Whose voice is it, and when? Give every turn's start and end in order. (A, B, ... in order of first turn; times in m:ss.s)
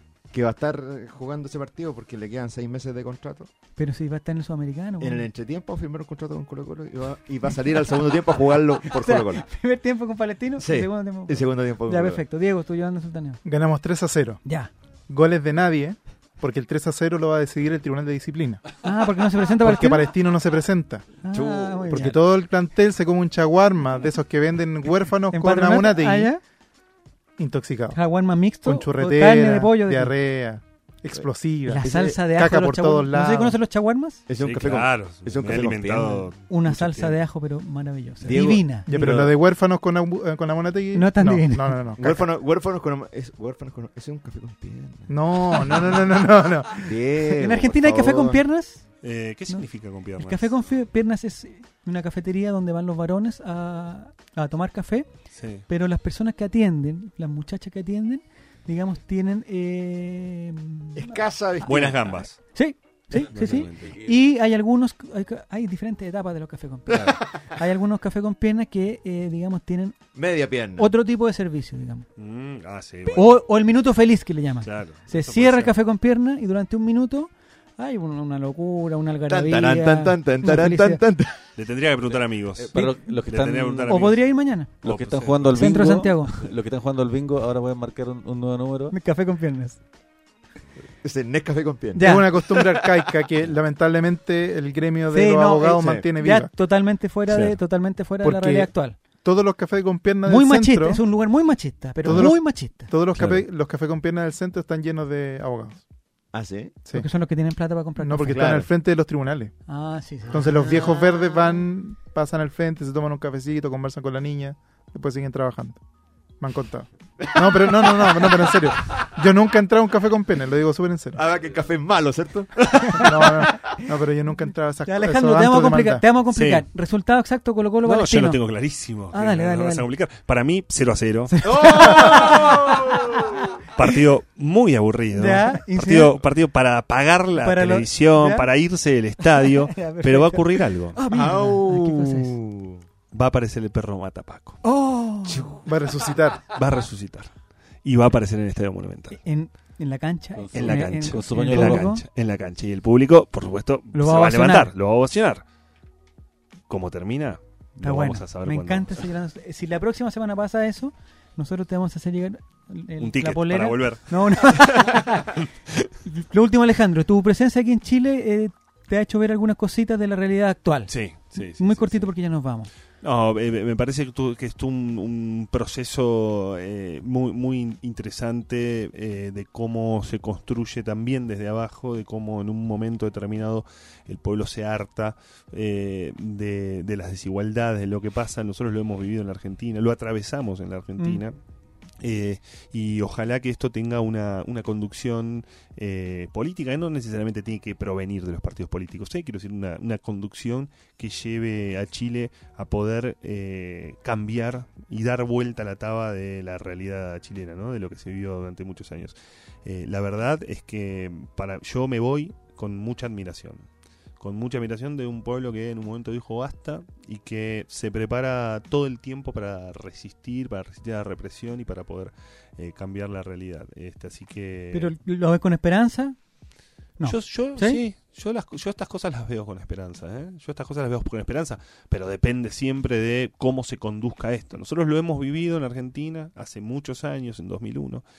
0:00.3-0:03.5 A
0:03.8-0:05.3 B
0:05.0-0:09.4 A
0:08.8-0:13.4 B
0:10.6-0:12.2 A
0:13.4-0:14.4 C
0:14.4-0:14.7 B
0:15.1-0:18.7 C
0:18.8-0:20.1 B
0:19.6-0:21.1 C
0:21.2-0:22.2 B
0:21.3-0:22.1 A
0:21.9-0:26.3 C
0:25.3-0:26.4 B
0:27.4-0:28.0 C
0:27.9-0:30.1 B
0:28.6-0:33.6 C
0:31.7-0:34.2 B
0:31.8-0:32.2 A
0:34.3-0:36.2 A
0:34.4-0:37.2 D
0:36.5-0:38.9 B
0:38.2-0:39.4 A
0:38.9-0:42.2 C
0:40.9-0:41.8 B
0:42.0-0:46.1 A
0:45.1-0:47.0 C
0:46.7-0:48.4 A
0:47.3-0:48.8 B
0:49.0-0:50.5 D
0:50.2-0:55.1 B
0:55.4-0:55.7 D
0:55.7-1:10.0 B
1:01.0-1:02.1 A
1:01.6-1:02.4 D
1:03.2-1:04.0 D
1:07.0-1:07.2 A
1:10.1-1:10.9 A
1:10.7-1:12.1 B
1:12.2-1:13.4 D
1:13.1-1:21.0 B
1:14.6-1:15.8 D
1:19.3-1:21.4 A
1:21.6-1:24.2 D
1:22.6-1:24.0 E
1:23.9-1:24.7 B
1:24.8-1:25.4 D
1:24.8-1:29.0 E
1:25.5-1:26.4 B
1:28.9-1:29.8 B
1:31.0-1:32.9 A
1:32.0-1:32.3 B
1:32.0-1:36.5 C
1:35.1-1:39.0 B
1:35.7-1:36.1 A
1:37.3-1:37.6 D
1:38.2-1:38.7 C
1:39.2-1:41.0 C
1:40.2-1:42.9 B
1:42.0-1:45.8 C
1:46.3-1:46.8 A
1:46.9-1:48.5 B
1:48.0-1:49.5 C
1:48.3-1:48.7 A
1:49.7-1:50.9 B
1:50.3-1:55.8 C
1:50.4-1:51.6 A
1:56.4-2:01.2 C
1:57.2-1:59.0 A
2:01.1-2:03.8 A
2:02.8-2:03.4 B
2:03.0-2:06.0 C
2:04.9-2:08.4 B
2:06.3-2:06.6 D
2:07.8-2:12.9 D
2:09.1-2:09.9 B
2:11.3-2:13.9 B
2:11.4-2:13.5 A
2:13.7-2:21.0 D
2:15.1-2:16.1 B
2:17.4-2:18.4 B
2:19.2-2:22.4 B
2:21.0-2:22.8 A
2:23.1-2:24.6 D
2:24.6-2:25.7 B
2:25.3-2:25.7 A
2:25.6-2:26.5 C
2:26.5-2:27.3 D
2:27.8-2:29.2 D
2:29.2-2:32.0 B
2:30.4-2:31.9 E
2:30.5-2:35.4 D
2:33.9-2:34.7 B
2:36.7-2:39.0 D
2:37.8-2:45.4 B
2:43.0-2:45.9 D
2:46.0-2:52.7 B
2:50.9-2:52.1 D
2:53.0-3:11.4 D
3:12.0-3:33.7 D
3:34.2-3:44.9 D
3:44.7-3:46.2 B
3:47.0-3:47.8 B
3:47.0-3:58.0 D